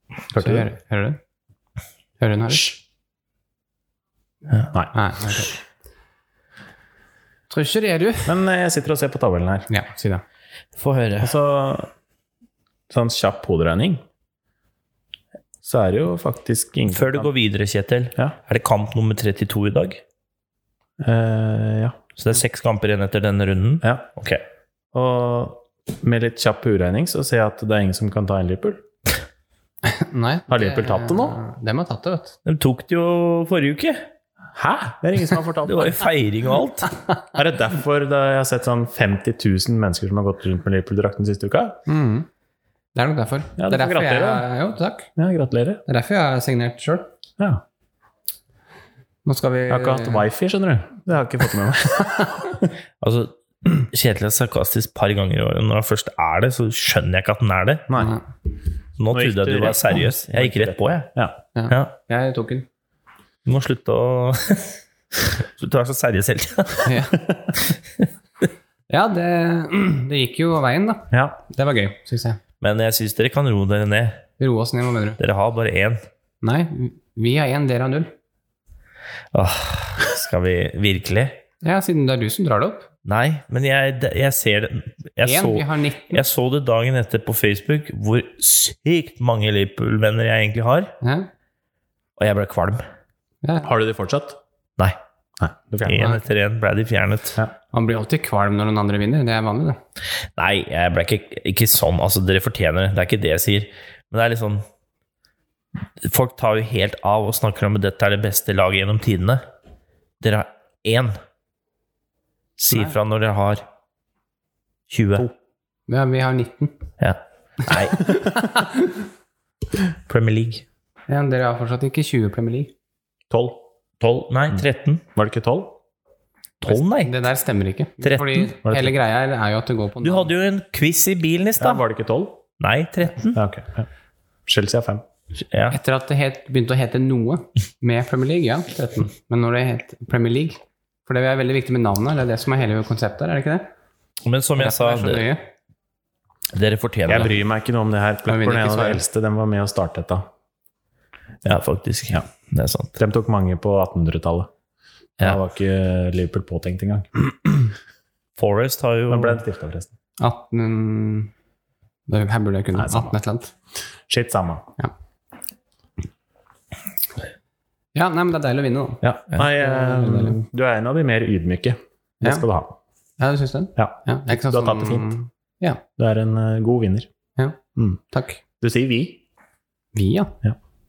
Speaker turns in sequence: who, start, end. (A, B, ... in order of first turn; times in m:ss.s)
0:00.3-0:00.7 A
0:00.3-0:01.2 B
0:02.2-0:02.8 B
0:04.9-0:05.6 B
0:07.5-0:08.4 B
0:08.3-0:09.7 A
0:09.7-0:10.2 B
0:10.8-0:11.3 C
0:11.2-0:11.9 A
0:12.9-0:14.0 A
0:15.6-0:17.3 A
0:16.9-0:20.0 C
0:21.0-0:22.0 A
0:22.2-0:24.4 C
0:23.8-0:24.1 A
0:24.9-0:28.8 A
0:29.8-0:32.4 B
0:30.5-0:31.4 A
0:32.5-0:34.1 C
0:34.6-0:36.0 A
0:35.6-0:36.9 C
0:37.3-0:41.8 A
0:41.9-0:42.3 B
0:43.0-0:45.1 B
0:43.6-0:44.5 A
0:45.2-0:45.8 A
0:45.9-0:47.1 B
0:49.2-0:50.3 B
0:49.7-0:52.7 A
0:53.0-0:57.9 C
0:57.9-0:58.2 A
0:58.0-0:58.2 B
0:59.0-1:01.1 C
0:59.1-1:01.4 A
1:01.6-1:02.7 B
1:03.4-1:07.0 C
1:06.8-1:07.2 B
1:07.2-1:07.5 A
1:07.7-1:08.0 C
1:08.9-1:12.4 B
1:11.1-1:11.4 A
1:12.6-1:14.2 C
1:14.4-1:15.2 B
1:15.2-1:16.0 C
1:16.4-1:18.1 B
1:19.3-1:21.4 C
1:21.6-1:22.9 B
1:23.0-1:30.9 C
1:25.2-1:26.2 B
1:31.0-1:31.3 B
1:32.2-1:32.8 C
1:33.4-1:33.7 B
1:33.6-1:34.4 A
1:35.4-1:36.2 A
1:35.8-1:37.4 C
1:37.7-1:39.8 B
1:40.4-1:44.6 C
1:46.0-1:49.4 C
1:50.2-1:51.1 C
1:52.6-1:53.6 C
1:54.9-1:55.3 C
1:55.9-1:56.8 B
1:57.0-1:58.0 C
1:57.7-1:58.9 B
2:00.1-2:00.6 C
2:01.1-2:02.7 B
2:03.3-2:03.6 A
2:04.0-2:05.0 C
2:05.2-2:05.8 A
2:06.6-2:07.1 C
2:07.0-2:10.3 B
2:08.0-2:08.5 C
2:08.6-2:08.9 A
2:10.0-2:11.8 C
2:11.6-2:12.4 A
2:12.6-2:13.4 C
2:13.3-2:13.9 A
2:14.5-2:15.0 A
2:15.4-2:15.8 C
2:15.7-2:23.7 B
2:24.2-2:25.3 C
2:24.6-2:25.5 B
2:26.5-2:27.4 C
2:27.1-2:30.2 A
2:28.3-2:29.0 B
2:31.4-2:33.0 C
2:33.0-2:34.5 A
2:35.2-2:37.7 A
2:38.4-2:39.4 C
2:39.1-2:39.9 A
2:40.2-2:41.3 B
2:42.1-2:43.5 B
2:42.8-2:43.1 A
2:44.1-2:44.7 A
2:48.0-2:49.0 B
2:49.0-2:52.8 A
2:49.6-2:50.4 B
2:53.2-2:55.8 B
2:53.8-2:55.1 A
2:56.0-2:57.1 A
2:58.1-2:58.4 B
2:58.6-2:59.2 A
2:59.9-3:00.4 B